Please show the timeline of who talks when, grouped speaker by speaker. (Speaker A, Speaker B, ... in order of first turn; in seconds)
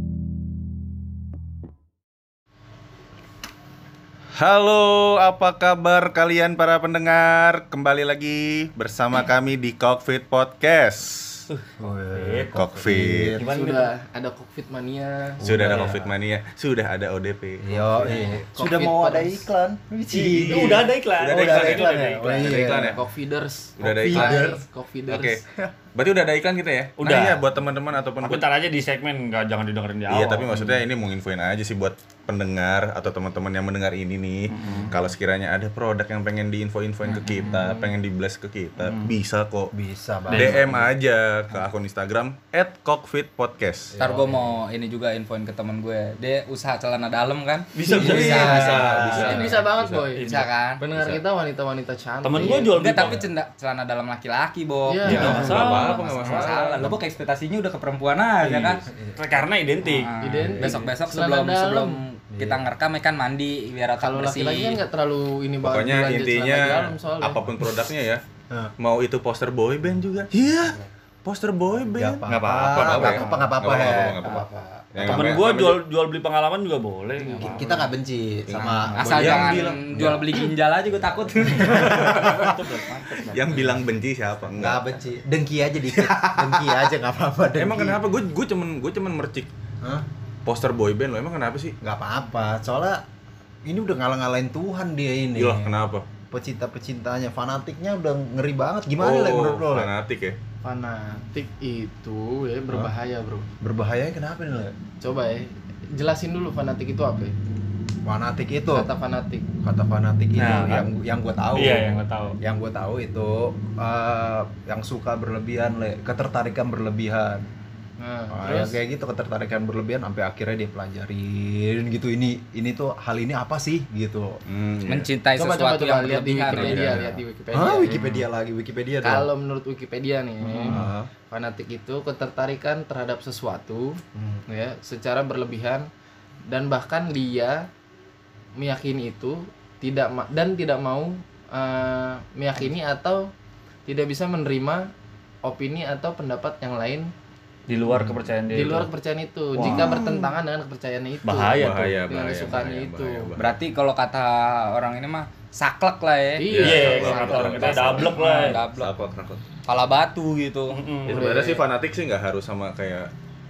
Speaker A: 4.4-11.5, 12.5-13.4, 15.4-18.1, 20.3-20.7, 21.2-23.0, 23.8-24.5, 25.1-28.4, 30.1-39.7, 40.3-44.0, 48.0-50.1, 50.9-51.2, 55.1-56.9, 65.6-68.2, 68.8-75.8, 78.5-79.9, 81.7-82.6, 83.1-84.9, 85.9-86.9, 87.6-89.5, 90.5-91.8, 95.4-96.0, 99.0-100.4, 124.5-125.1, 126.5-127.1, 151.5-153.6, 156.5-158.1, 158.7-159.4, 161.1-163.1
Speaker B: 11.5-12.7, 13.4-13.9, 20.1-22.8, 27.0-27.4, 28.2-30.7, 34.5-34.9, 38.8-39.1, 40.3-40.6, 47.7-48.8, 50.1-50.5, 52.2-53.2, 55.0-56.4, 58.5-60.1, 72.3-73.3, 75.1-77.9, 78.8-79.4, 81.9-83.8, 110.4-110.9, 111.5-112.4, 147.7-148.9, 149.6-150.0, 151.2-152.0, 156.6-158.6, 160.7-161.3
Speaker C: 11.8-13.4, 15.4-16.1, 17.6-23.0, 24.0-24.6, 39.7-40.9, 43.9-44.6, 47.9-49.5, 58.9-59.3, 60.3-60.8, 62.3-62.6, 71.8-75.4, 77.4-82.6, 84.5-88.0, 91.8-93.0, 93.7-95.7, 96.3-99.9, 103.6-104.8, 108.1-108.9, 109.6-117.5, 118.3-124.4, 127.5-129.3, 130.7-131.1, 134.2-134.4, 149.7-150.2
Speaker D: 13.4-15.8, 18.1-19.5, 22.3-25.4, 37.4-37.9, 48.4-52.7, 54.9-56.4, 60.2-62.0, 64.0-67.5, 77.2-77.9, 100.6-103.5, 105.0-107.3, 108.7-109.5, 118.0-118.8, 125.3-128.1, 129.0-135.9, 136.5-137.7, 138.6-143.3, 143.9-144.9, 145.4-147.1, 148.5-153.3, 156.4-158.6, 161.1-161.7
Speaker E: 44.0-48.8, 50.3-50.8, 52.5-58.8, 59.8-64.8, 78.6-82.2, 124.8-127.2, 130.4-130.7, 153.4-156.5, 158.0-159.0, 159.7-160.8